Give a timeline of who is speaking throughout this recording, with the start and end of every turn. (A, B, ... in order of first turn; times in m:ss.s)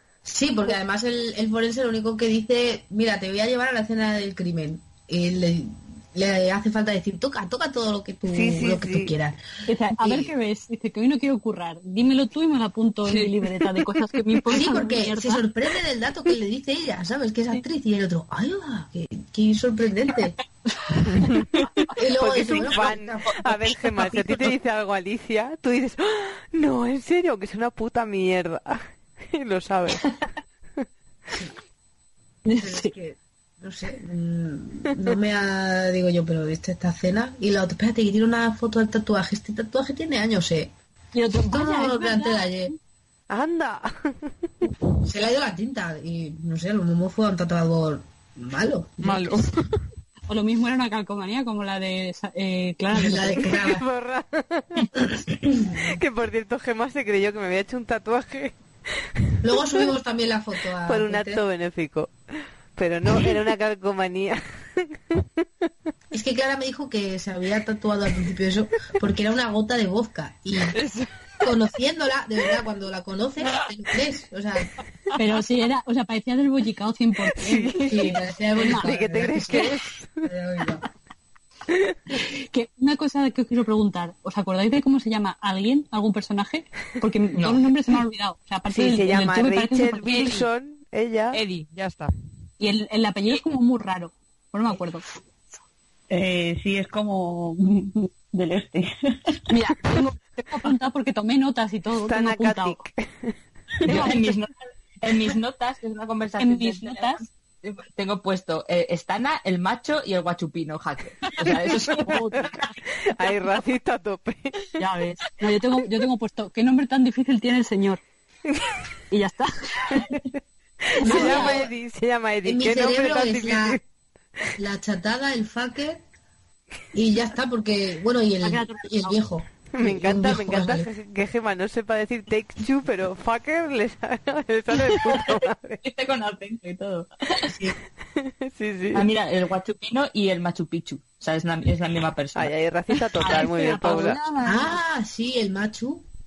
0:00.2-0:09.4 A
0:08.3-0:09.1 B
0:09.7-0:15.4 C
0:10.0-0:10.3 A
0:13.0-0:13.3 D
0:14.5-0:20.4 A
0:20.9-0:21.6 C
0:21.1-0:21.4 D
0:21.9-0:23.8 A
0:22.1-0:30.1 B
0:32.4-0:32.9 C
0:32.6-0:40.7 A
0:41.1-0:42.7 C
0:41.5-0:42.7 A
0:43.3-0:44.3 B
0:45.0-0:49.4 A
0:49.0-0:49.7 D
0:50.3-0:53.5 C
0:52.9-0:53.8 A
0:53.4-0:54.9 B
0:55.0-0:56.0 A
0:55.8-0:58.5 B
0:59.2-0:59.8 B
0:59.4-1:01.4 A
1:00.8-1:02.1 B
1:02.8-1:05.2 B
1:06.1-1:10.8 A
1:10.7-1:11.1 D
1:11.4-1:14.7 A
1:15.2-1:18.9 C
1:17.4-1:18.1 B
1:17.8-1:20.8 A
1:18.7-1:20.2 B
1:22.1-1:30.4 C
1:27.4-1:27.7 E
1:28.7-1:31.4 B
1:31.3-1:32.1 D
1:32.6-1:35.1 C
1:36.1-1:39.4 F
1:39.5-1:42.8 C
1:42.0-1:43.3 B
1:43.8-1:52.7 E
1:43.8-1:44.2 C
1:46.4-1:47.2 C
1:51.9-1:52.5 C
1:53.0-1:54.7 B
1:54.8-1:58.0 C
1:59.1-2:00.2 C
2:00.9-2:03.8 B
2:01.0-2:01.6 C
2:01.0-2:01.7 A
2:02.4-2:03.8 A
2:04.6-2:06.0 A
2:06.9-2:10.9 A
2:08.4-2:09.2 C
2:09.7-2:15.8 B
2:15.8-2:17.5 E
2:17.5-2:17.7 A
2:18.2-2:19.1 B
2:18.9-2:22.5 E
2:22.4-2:24.2 B
2:23.2-2:24.8 C
2:24.4-2:26.0 A